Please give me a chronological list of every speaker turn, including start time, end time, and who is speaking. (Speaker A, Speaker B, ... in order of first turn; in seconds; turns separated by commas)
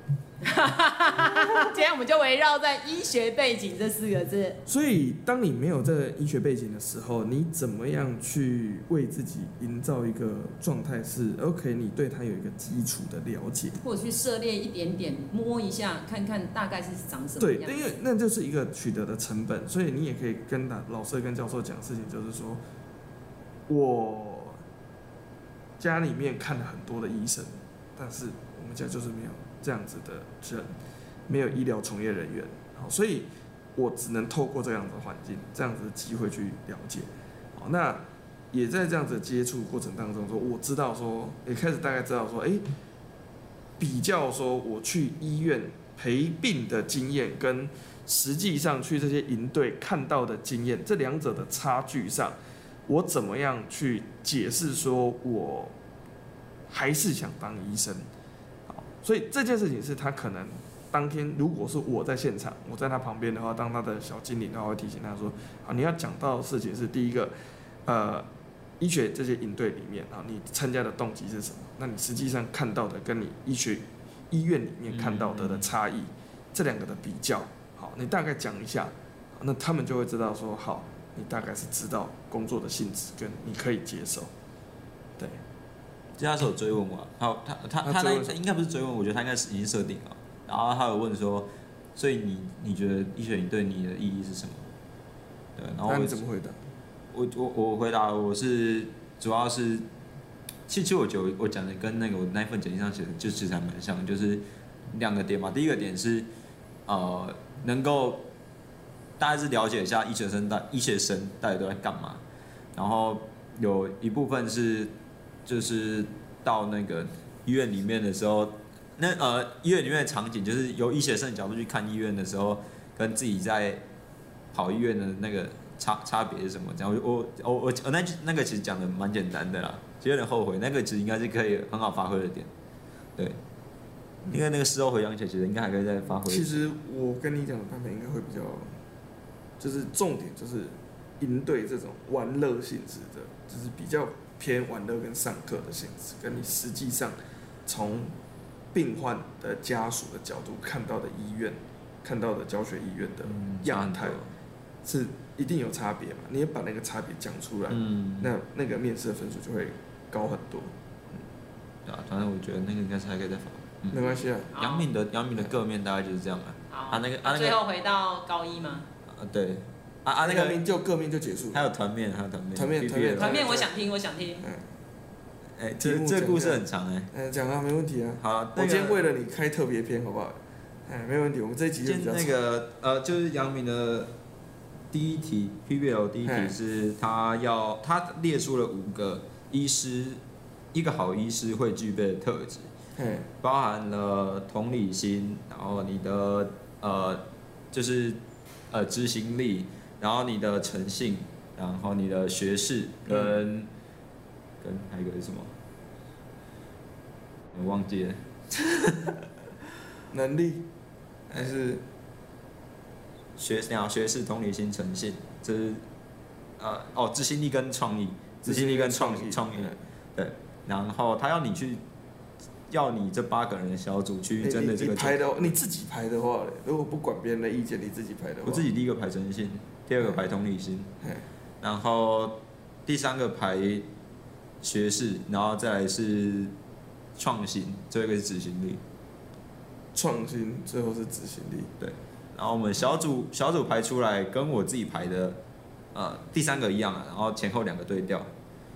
Speaker A: 0.4-4.6, Speaker B: 4.7-13.8, Speaker A: 13.8-17.9, Speaker B: 17.4-22.6, Speaker B: 23.7-24.6, Speaker B: 25.8-30.7, Speaker B: 31.3-42.6, Speaker B: 43.8-55.7, Speaker B: 56.7-58.1, Speaker B: 58.7-67.3, Speaker B: 67.8-68.3, Speaker B: 68.8-84.3, Speaker C: 74.9-75.7, Speaker C: 86.2-94.7, Speaker B: 87.8-88.3, Speaker C: 95.6-96.2, Speaker B: 95.8-96.6, Speaker C: 97.1-99.8, Speaker C: 100.7-106.3, Speaker C: 106.9-108.2, Speaker C: 109.2-112.2, Speaker C: 112.7-114.9, Speaker C: 115.5-123.8, Speaker C: 124.5-132.5, Speaker C: 134.3-136.6, Speaker B: 136.2-138.7, Speaker B: 139.6-148.1, Speaker B: 148.7-154.2, Speaker C: 153.2-154.3, Speaker B: 154.8-160.7, Speaker C: 157.7-158.3, Speaker C: 161.8-167.6, Speaker B: 163.9-164.5, Speaker A: 164.5-164.9, Speaker A: 166.7-168.8, Speaker C: 169.1-170.6, Speaker B: 170.2-171.7, Speaker C: 171.5-173.4, Speaker B: 172.5-173.7, Speaker A: 173.2-174.5, Speaker B: 174.4-174.7, Speaker C: 175.6-177.1, Speaker B: 175.8-182.3, Speaker C: 178.2-179.0, Speaker C: 181.8-184.1, Speaker C: 184.9-190.2, Speaker B: 186.2-186.6, Speaker C: 190.7-192.7, Speaker B: 193.0-193.3, Speaker C: 193.4-198.2, Speaker C: 198.7-203.7, Speaker B: 203.1-203.4, Speaker C: 204.6-205.5, Speaker C: 207.5-209.2, Speaker B: 210.1-210.7, Speaker B: 211.3-211.8, Speaker C: 213.4-215.8, Speaker C: 216.6-221.8, Speaker B: 218.4-219.8, Speaker C: 222.7-225.5, Speaker B: 224.4-228.7, Speaker C: 228.4-230.9, Speaker B: 231.0-231.3, Speaker C: 231.6-233.8, Speaker C: 234.6-236.5, Speaker C: 237.2-238.8, Speaker B: 239.9-241.7, Speaker C: 241.8-245.4, Speaker C: 245.9-248.3